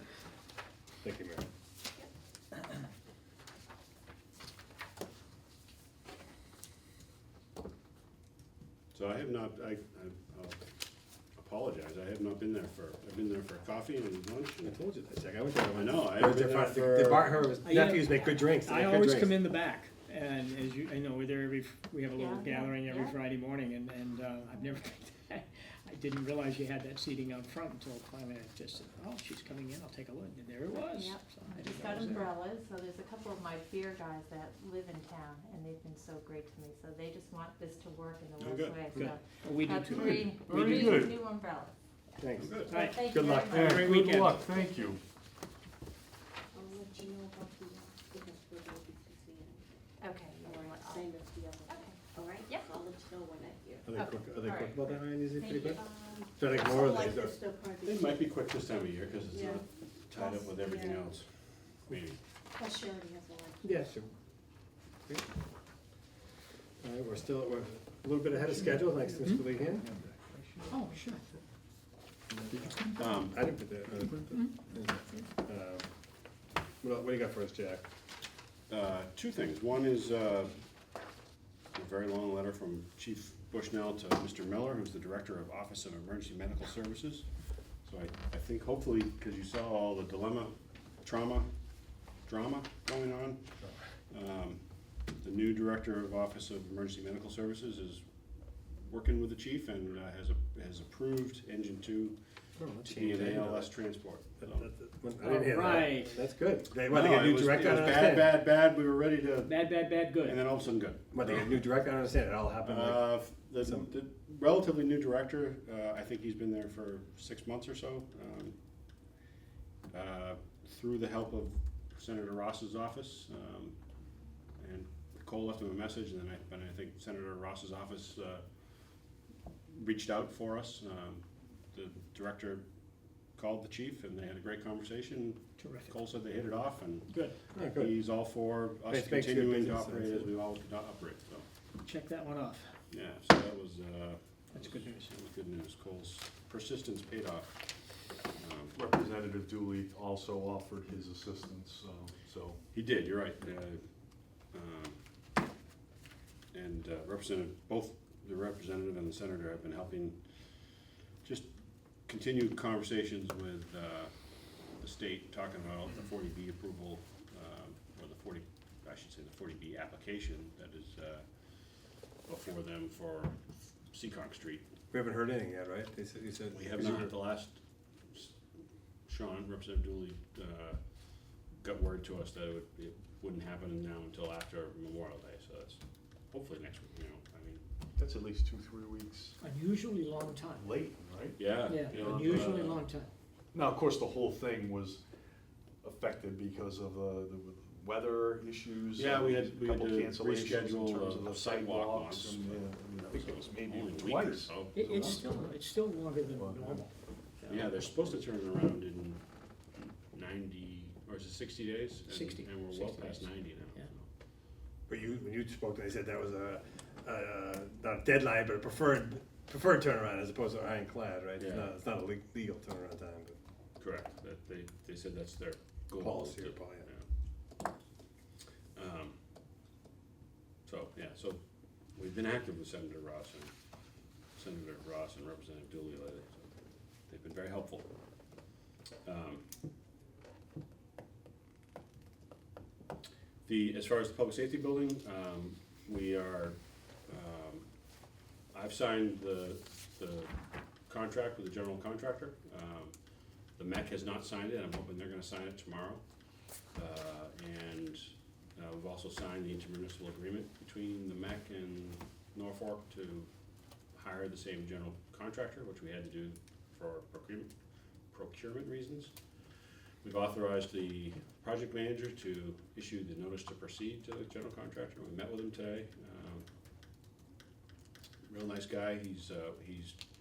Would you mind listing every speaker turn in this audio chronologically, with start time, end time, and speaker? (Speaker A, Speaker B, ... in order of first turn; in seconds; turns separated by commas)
Speaker A: 1.0-1.4, Speaker B: 8.9-10.6, Speaker B: 11.4-14.7, Speaker A: 14.6-19.4, Speaker B: 15.7-17.5, Speaker C: 17.6-32.4, Speaker D: 22.1-23.2, Speaker D: 30.9-45.0, Speaker C: 38.9-40.4, Speaker E: 40.0-41.3, Speaker A: 42.2-43.5, Speaker B: 42.4-42.7, Speaker C: 42.7-44.4, Speaker E: 43.5-45.0, Speaker F: 46.5-49.7, Speaker D: 46.6-47.1, Speaker D: 50.0-51.1, Speaker F: 50.4-53.9, Speaker D: 51.7-52.7, Speaker A: 53.8-57.3, Speaker D: 53.9-55.6, Speaker F: 55.5-61.2, Speaker B: 57.8-61.2, Speaker B: 61.9-62.2, Speaker F: 62.6-63.7, Speaker A: 63.6-64.1, Speaker A: 66.8-69.9, Speaker C: 68.8-69.6, Speaker C: 70.7-71.2, Speaker A: 72.3-75.9, Speaker B: 73.0-73.3, Speaker C: 74.3-74.5, Speaker A: 76.8-77.8, Speaker B: 78.7-80.5, Speaker B: 81.8-87.2, Speaker B: 87.9-91.5, Speaker B: 92.3-93.4, Speaker B: 94.1-94.6, Speaker B: 95.2-98.0, Speaker B: 98.8-102.2, Speaker A: 102.5-103.7, Speaker B: 102.8-104.7, Speaker A: 104.4-108.4, Speaker C: 105.2-106.2, Speaker B: 106.9-109.5, Speaker C: 109.4-110.4, Speaker B: 110.1-111.4, Speaker A: 111.1-113.9, Speaker B: 112.6-118.5, Speaker B: 119.9-123.7, Speaker B: 124.6-128.4, Speaker B: 129.7-131.2, Speaker B: 131.7-132.6, Speaker B: 133.3-141.4, Speaker C: 135.6-136.0, Speaker C: 137.1-137.4, Speaker A: 137.5-138.1, Speaker A: 138.8-140.3, Speaker C: 141.8-142.7, Speaker B: 142.9-147.5, Speaker C: 144.5-145.1, Speaker B: 148.4-148.7, Speaker E: 148.7-152.6, Speaker B: 152.7-153.8, Speaker B: 154.5-155.0, Speaker B: 156.5-160.2, Speaker B: 162.1-173.4, Speaker B: 173.9-174.6, Speaker A: 174.9-177.2, Speaker B: 176.5-177.6, Speaker B: 179.1-180.8, Speaker B: 181.6-185.8, Speaker B: 186.3-187.6, Speaker E: 188.0-189.4, Speaker C: 189.4-190.7, Speaker E: 190.5-192.7, Speaker B: 191.4-192.8, Speaker C: 191.6-193.1, Speaker E: 193.5-195.0, Speaker E: 195.8-205.4, Speaker B: 199.0-205.2, Speaker C: 204.7-206.9, Speaker E: 206.3-206.9, Speaker C: 207.4-207.7, Speaker B: 207.5-209.2, Speaker B: 210.1-214.0, Speaker C: 212.0-213.8, Speaker A: 214.9-223.3, Speaker B: 221.4-221.7, Speaker B: 223.8-227.0, Speaker A: 225.9-226.9, Speaker B: 228.8-229.2, Speaker B: 230.7-231.4, Speaker B: 231.9-233.5, Speaker B: 234.4-236.5, Speaker B: 237.1-238.5, Speaker B: 239.0-239.4, Speaker B: 243.4-246.6, Speaker B: 247.1-247.6, Speaker B: 248.5-250.3, Speaker B: 250.9-252.9, Speaker B: 253.6-256.0, Speaker B: 256.7-263.3, Speaker B: 263.9-267.5, Speaker B: 268.1-269.1, Speaker B: 270.0-276.4, Speaker B: 278.3-279.9